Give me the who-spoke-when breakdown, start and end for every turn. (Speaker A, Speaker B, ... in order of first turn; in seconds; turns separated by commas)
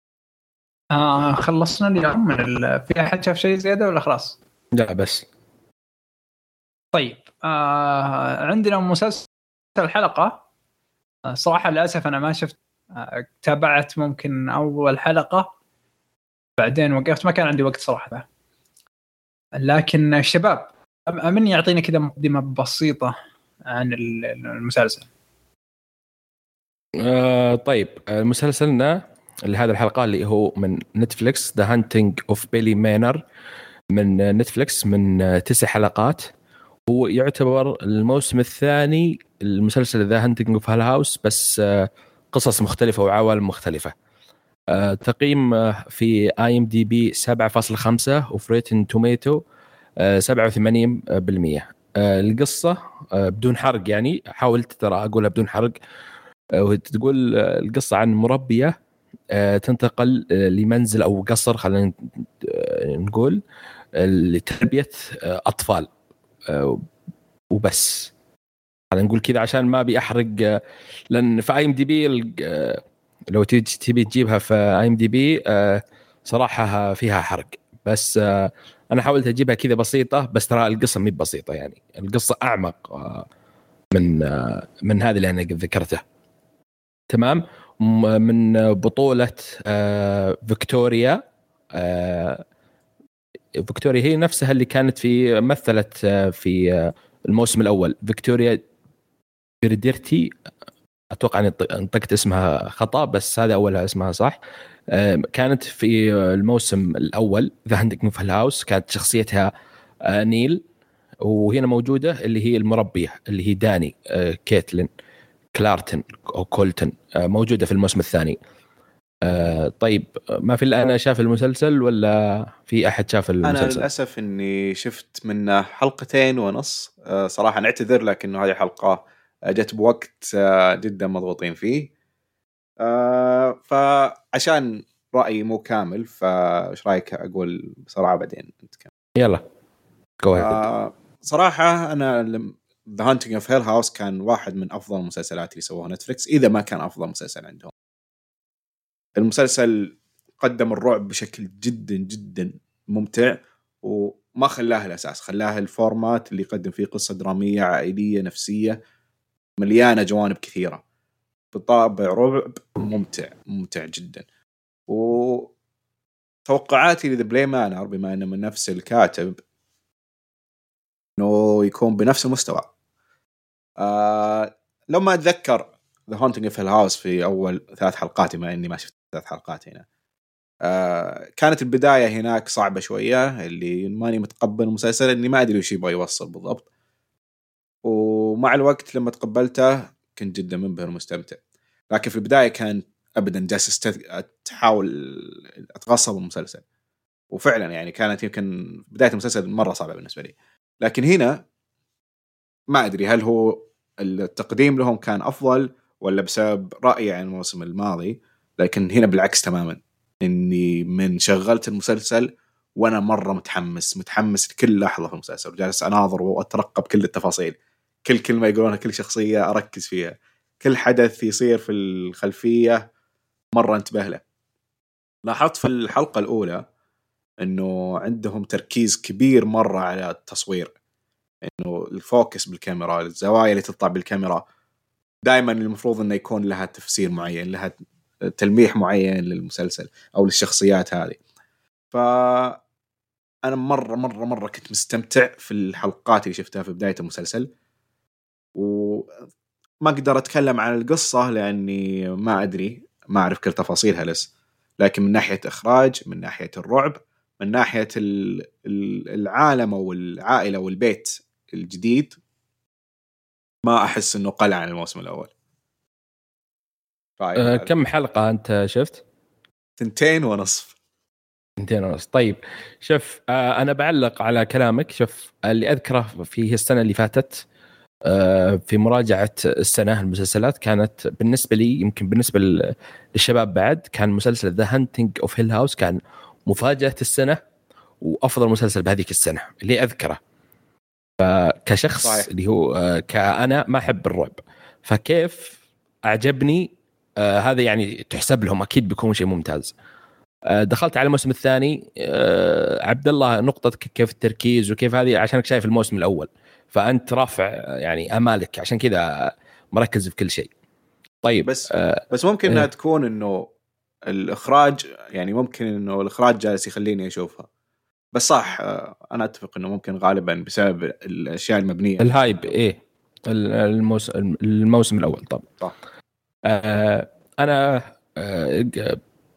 Speaker A: 0.9-4.4, Speaker B: 4.7-5.2, Speaker A: 6.9-10.4, Speaker A: 11.3-15.5, Speaker A: 16.6-18.2, Speaker A: 19.6-23.1, Speaker A: 23.7-25.1, Speaker B: 27.0-33.2, Speaker B: 33.9-36.3, Speaker B: 36.9-43.9, Speaker B: 44.7-49.4, Speaker B: 50.0-55.7, Speaker B: 56.5-58.7, Speaker B: 59.3-63.4, Speaker B: 63.9-65.9, Speaker B: 66.5-66.8, Speaker B: 67.5-68.1, Speaker B: 68.9-70.6, Speaker B: 71.1-83.2, Speaker B: 83.9-86.0, Speaker B: 87.1-91.2, Speaker B: 91.7-92.4, Speaker B: 93.6-98.6, Speaker B: 99.6-100.3, Speaker B: 101.1-104.4, Speaker B: 104.9-109.5, Speaker B: 110.0-110.6, Speaker B: 111.2-114.9, Speaker B: 115.5-118.4, Speaker B: 119.2-123.8, Speaker C: 123.4-131.9, Speaker C: 132.8-138.9, Speaker B: 139.2-139.4, Speaker B: 140.2-140.6, Speaker C: 140.4-147.7, Speaker C: 149.2-158.8, Speaker C: 159.6-160.8, Speaker C: 161.5-164.2, Speaker C: 164.9-165.5, Speaker C: 166.5-169.4, Speaker C: 171.2-172.7, Speaker C: 173.8-179.8, Speaker C: 180.6-186.7, Speaker C: 187.8-191.4, Speaker C: 191.9-196.6, Speaker C: 197.3-201.4, Speaker C: 202.7-212.3, Speaker C: 212.8-222.8, Speaker C: 223.5-224.2, Speaker C: 225.2-226.6, Speaker C: 227.4-230.7, Speaker C: 231.4-234.4, Speaker C: 235.2-237.8, Speaker C: 238.3-241.2, Speaker C: 241.9-242.6, Speaker C: 243.4-247.5, Speaker C: 248.6-249.1, Speaker C: 249.8-254.3, Speaker C: 254.8-262.2, Speaker C: 263.6-265.3, Speaker C: 267.2-267.7, Speaker B: 267.4-269.0, Speaker C: 269.8-270.7, Speaker B: 271.6-277.4, Speaker B: 278.0-287.4, Speaker B: 288.0-290.2, Speaker B: 291.2-295.6, Speaker C: 292.0-292.3, Speaker B: 296.1-299.7, Speaker B: 300.5-310.5, Speaker B: 311.2-312.7, Speaker C: 311.4-313.5, Speaker C: 314.1-317.5, Speaker C: 318.1-322.5, Speaker B: 322.0-325.4, Speaker B: 326.4-329.0